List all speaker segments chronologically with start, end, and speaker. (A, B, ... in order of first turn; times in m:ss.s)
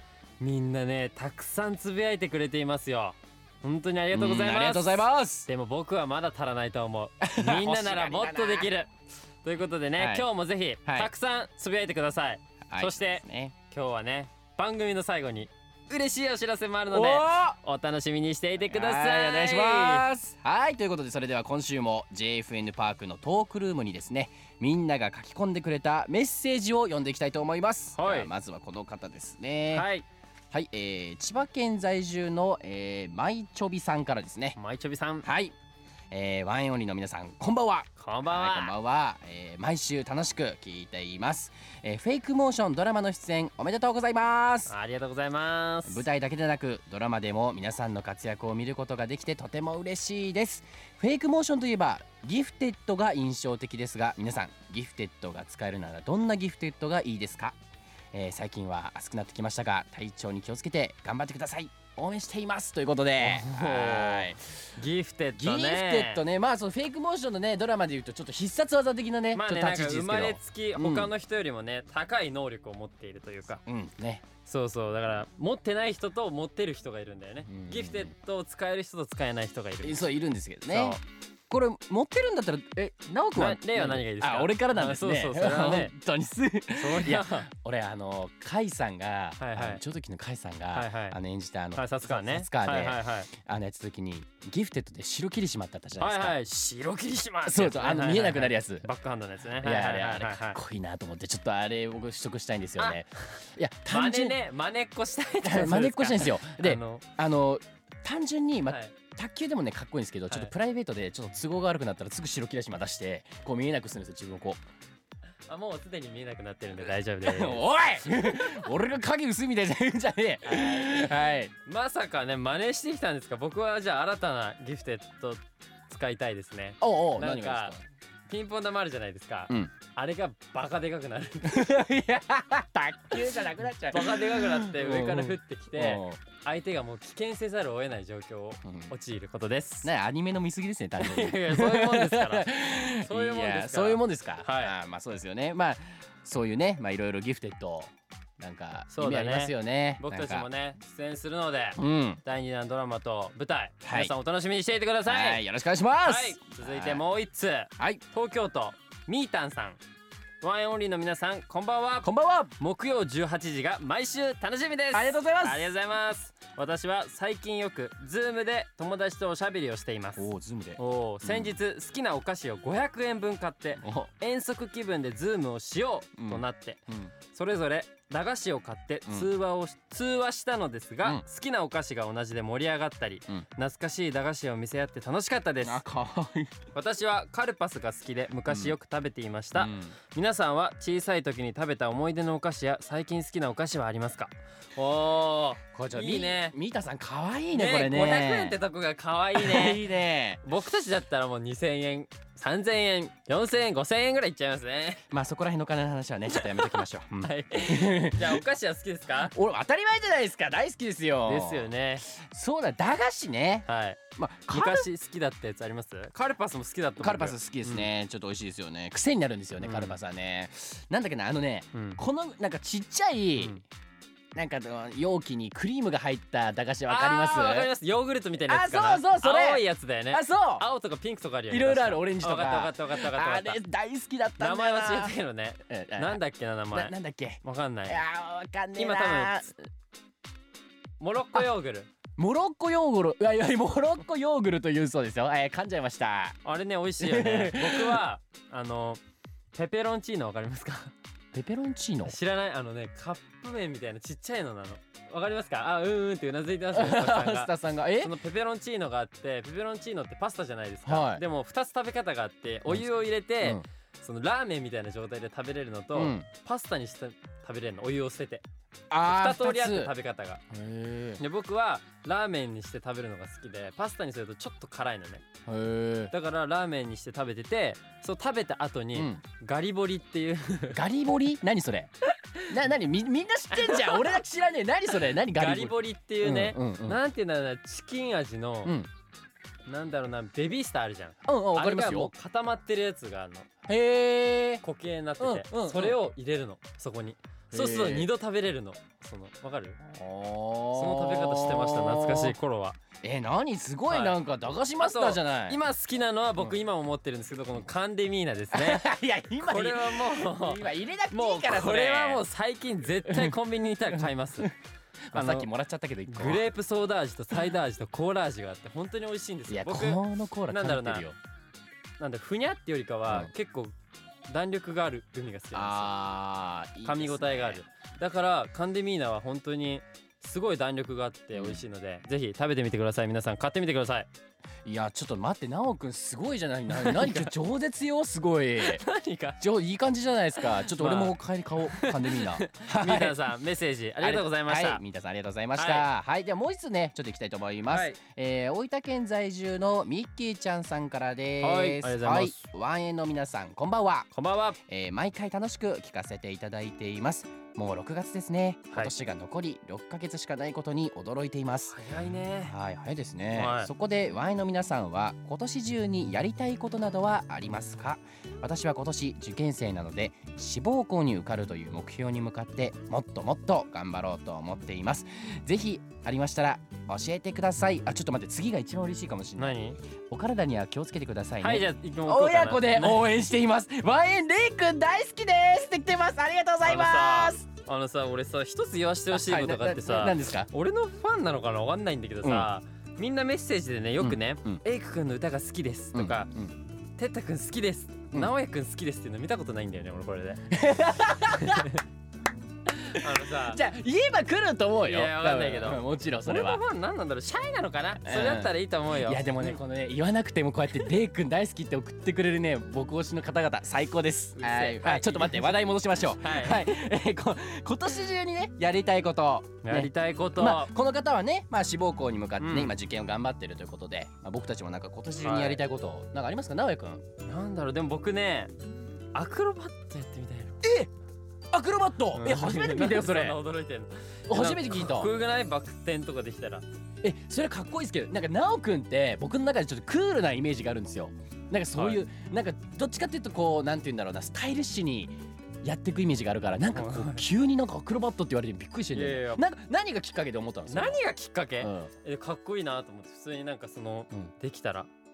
0:00.4-0:08.9 A
0:04.1-0:05.5 B
0:07.2-0:08.7 B
0:09.4-0:20.1 A
0:10.0-0:10.3 B
0:10.8-0:11.1 B
0:12.7-0:13.5 B
0:16.9-0:17.6 B
0:18.6-0:29.9 B
0:28.0-0:28.3 A
0:29.7-0:30.0 A
0:30.5-0:34.6 B
0:34.6-0:35.2 A
0:35.2-0:35.5 B
0:36.1-0:44.7 B
0:38.0-0:38.7 A
0:44.7-0:46.0 A
0:45.8-0:57.6 B
0:58.1-1:04.4 B
1:03.2-1:06.2 A
1:05.4-1:11.1 B
1:09.3-1:13.6 A
1:13.6-1:14.2 B
1:14.4-1:20.0 A
1:17.5-1:18.1 B
1:19.8-1:36.4 B
1:20.7-1:21.0 A
1:23.3-1:25.9 A
1:26.7-1:27.5 A
1:29.4-1:29.8 A
1:30.7-1:31.2 A
1:31.7-1:33.3 A
1:36.0-1:40.6 A
1:37.4-1:38.9 B
1:39.6-1:44.4 B
1:42.8-1:47.0 A
1:45.4-1:54.6 B
1:48.7-1:48.9 A
1:55.5-1:58.6 A
1:56.8-2:01.5 B
2:00.4-2:01.1 A
2:01.6-2:07.7 A
2:06.8-2:07.8 B
2:08.3-2:11.6 A
2:11.4-2:16.2 B
2:13.9-2:19.9 A
2:18.6-2:18.9 B
2:19.8-2:30.5 B
2:21.0-2:22.5 A
2:23.0-2:24.7 A
2:28.9-2:35.4 A
2:31.8-2:32.2 B
2:33.8-2:34.1 B
2:35.0-2:37.0 B
2:36.0-2:39.8 A
2:40.4-3:05.8 A
2:42.0-2:42.5 B
2:44.9-2:45.7 B
2:50.2-2:51.6 B
2:53.8-2:54.1 B
2:56.2-2:57.1 B
3:05.6-3:06.5 B
3:06.7-3:16.6 A
3:08.5-3:08.8 B
3:09.5-3:09.9 B
3:15.7-3:18.6 B
3:17.5-3:19.8 A
3:19.3-3:20.4 B
3:20.4-3:25.0 A
3:25.1-3:28.4 B
3:26.3-3:29.3 A
3:29.2-3:34.9 B
3:31.2-3:32.1 A
3:33.6-3:37.9 A
3:37.0-3:43.6 B
3:39.6-3:40.0 A
3:41.7-3:42.0 A
3:44.3-3:47.7 B
3:46.9-3:53.6 A
3:48.4-3:50.6 B
3:51.5-3:56.2 B
3:54.4-3:58.0 A
3:56.7-3:59.5 B
3:58.7-3:59.5 A
4:01.0-4:01.9 A
4:02.2-4:06.4 B
4:06.4-4:09.0 A
4:07.0-4:08.0 B
4:09.5-4:10.9 A
4:11.3-4:12.2 B
4:12.0-4:28.4 A
4:16.7-4:18.1 B
4:20.8-4:21.2 B
4:23.4-4:23.6 B
4:25.9-4:26.3 B
4:28.9-4:29.9 B
4:29.0-4:30.4 A
4:30.5-4:31.2 B
4:31.2-4:35.2 A
4:35.5-4:36.1 B
4:36.1-4:40.8 A
4:38.9-4:39.2 B
4:40.7-4:41.9 B
4:42.5-4:47.0 B
4:43.5-4:44.2 A
4:45.2-4:48.7 A
4:49.6-4:53.5 A
4:51.2-4:52.1 B
4:53.7-4:54.6 B
4:54.6-4:59.8 A
4:55.2-4:56.0 B
4:57.5-4:58.1 B
4:59.8-5:02.4 B
5:00.7-5:02.8 A
5:03.0-5:05.6 B
5:03.9-5:04.2 A
5:04.8-5:08.8 A
5:08.5-5:12.2 B
5:09.4-5:14.5 A
5:13.0-5:13.3 B
5:13.9-5:14.5 B
5:15.1-5:16.4 B
5:15.1-5:15.5 A
5:16.1-5:21.0 A
5:19.5-5:21.2 B
5:22.0-5:23.7 A
5:23.1-5:23.3 B
5:24.3-5:25.9 A
5:25.5-5:27.6 B
5:26.8-5:34.1 A
5:31.3-5:31.6 B
5:34.6-5:38.8 B
5:36.7-5:37.3 A
5:38.6-5:39.4 A
5:39.4-5:43.2 B
5:40.4-5:41.2 A
5:41.7-5:44.8 A
5:44.0-5:54.1 B
5:45.5-5:45.9 A
5:47.7-5:48.0 A
5:51.4-5:52.4 A
5:54.1-5:54.6 A
5:54.7-6:01.8 B
6:01.7-6:02.5 A
6:02.4-6:19.6 B
6:03.3-6:03.7 A
6:19.4-6:19.8 A
6:20.1-6:27.4 B
6:21.4-6:23.0 A
6:26.6-6:36.3 A
6:29.1-6:30.5 B
6:32.2-6:32.5 B
6:34.0-6:34.6 B
6:35.9-6:36.6 B
6:37.0-6:40.4 A
6:40.5-6:41.7 B
6:41.3-6:41.8 A
6:42.8-6:43.6 A
6:43.0-6:46.6 B
6:44.8-6:49.6 A
6:48.0-7:07.0 B
6:54.4-6:55.6 A
6:56.2-6:56.7 A
6:59.6-7:00.7 A
7:02.4-7:02.8 A
7:05.2-7:05.6 A
7:07.2-7:08.5 A
7:09.1-7:10.6 A
7:10.6-7:10.9 B
7:11.5-7:13.4 B
7:12.1-7:16.6 A
7:14.3-7:15.1 B
7:17.0-7:31.0 B
7:21.7-7:22.0 A
7:26.7-7:27.3 A
7:28.9-7:29.4 A
7:30.7-7:34.9 A
7:31.6-7:31.9 B